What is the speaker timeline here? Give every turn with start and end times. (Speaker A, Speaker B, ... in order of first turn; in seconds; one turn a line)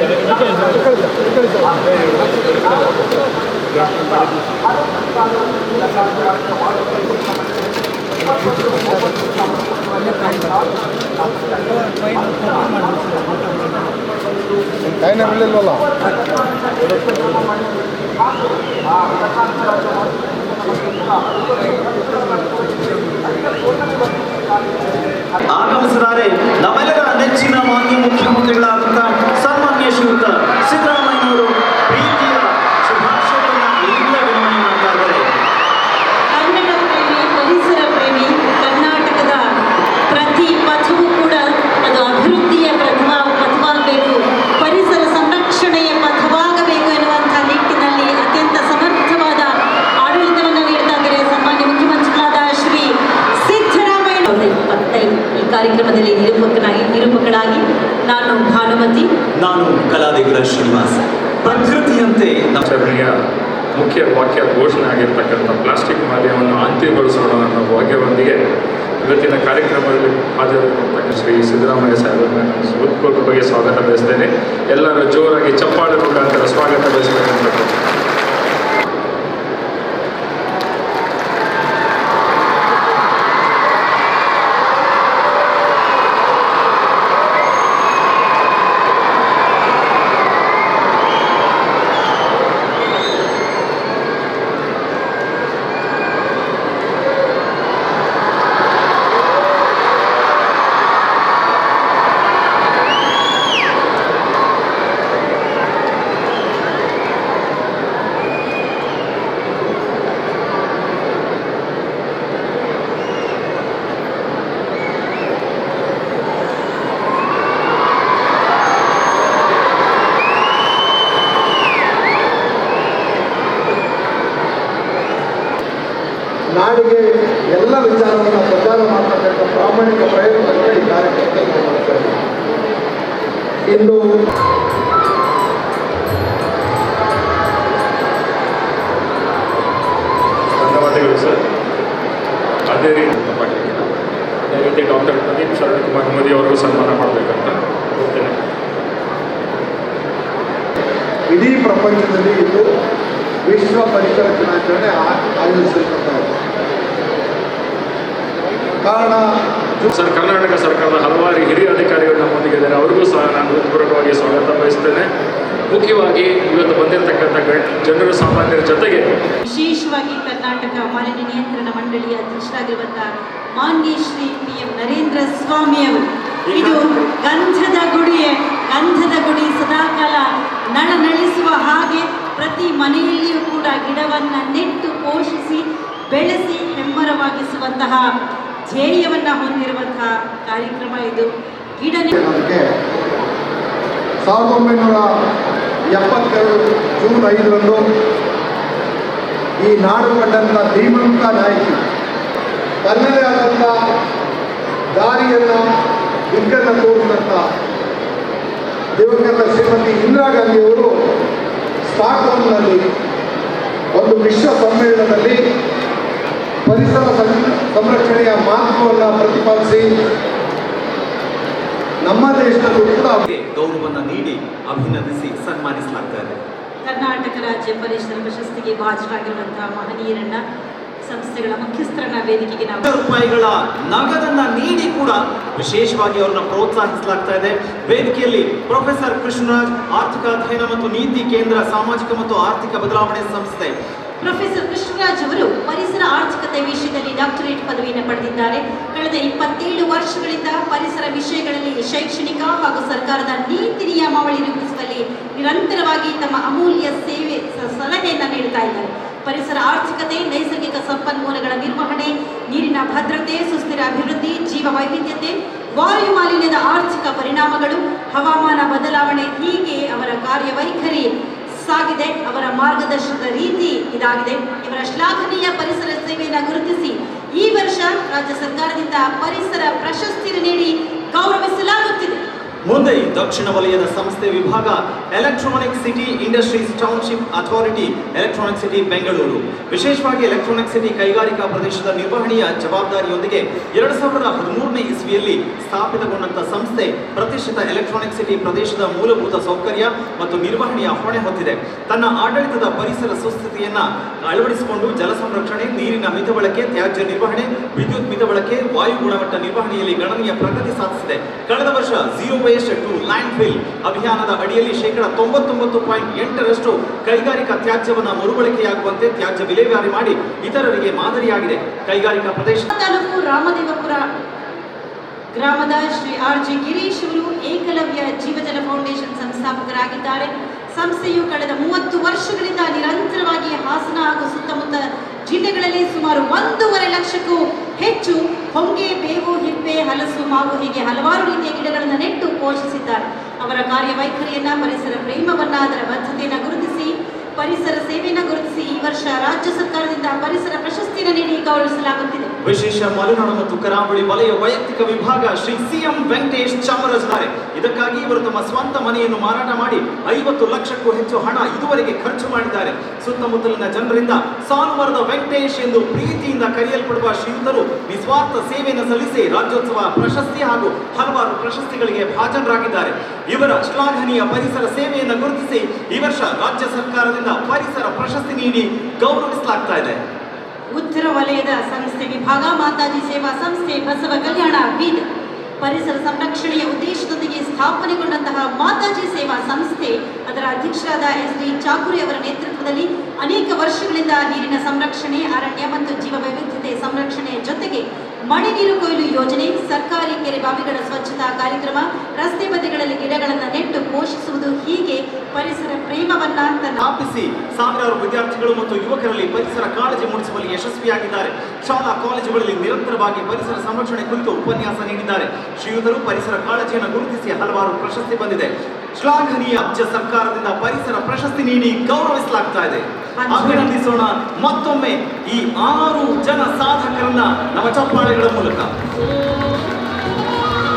Speaker A: 14.8-15.9
Speaker B: 25.5-35.3
Speaker C: 36.3-39.5
Speaker C: 40.1-59.1
Speaker B: 59.4-62.6
Speaker D: 62.6-63.1
Speaker D: 63.8-68.4
Speaker D: 69.0-77.7
Speaker A: 126.5-132.2
Speaker A: 133.7-134.0
Speaker D: 140.6-141.4
Speaker D: 142.7-143.9
Speaker D: 144.5-148.3
Speaker A: 151.3-152.7
Speaker A: 153.5-156.3
Speaker A: 158.8-159.2
Speaker D: 159.9-165.1
Speaker D: 165.7-169.1
Speaker C: 169.4-188.1
Speaker B: 176.5-177.1
Speaker C: 188.7-192.2
Speaker A: 192.2-192.8
Speaker A: 194.2-195.1
Speaker A: 195.9-197.8
Speaker A: 199.6-201.8
Speaker A: 202.8-203.8
Speaker A: 204.9-205.6
Speaker A: 206.3-207.4
Speaker A: 209.0-210.9
Speaker A: 211.9-212.8
Speaker A: 213.9-215.4
Speaker A: 216.7-219.9
Speaker A: 222.0-223.3
Speaker B: 223.3-226.4
Speaker C: 226.8-230.4
Speaker C: 231.0-232.9
Speaker B: 232.9-243.8
Speaker C: 244.2-282.2
Speaker B: 282.7-322.7
Speaker C: 322.7-324.1
Speaker C: 325.3-352.3
Speaker B: 352.4-380.0
Speaker C: 380.7-385.1
Speaker C: 385.6-406.8
Speaker B: 406.8-428.7
Speaker C: 423.2-423.7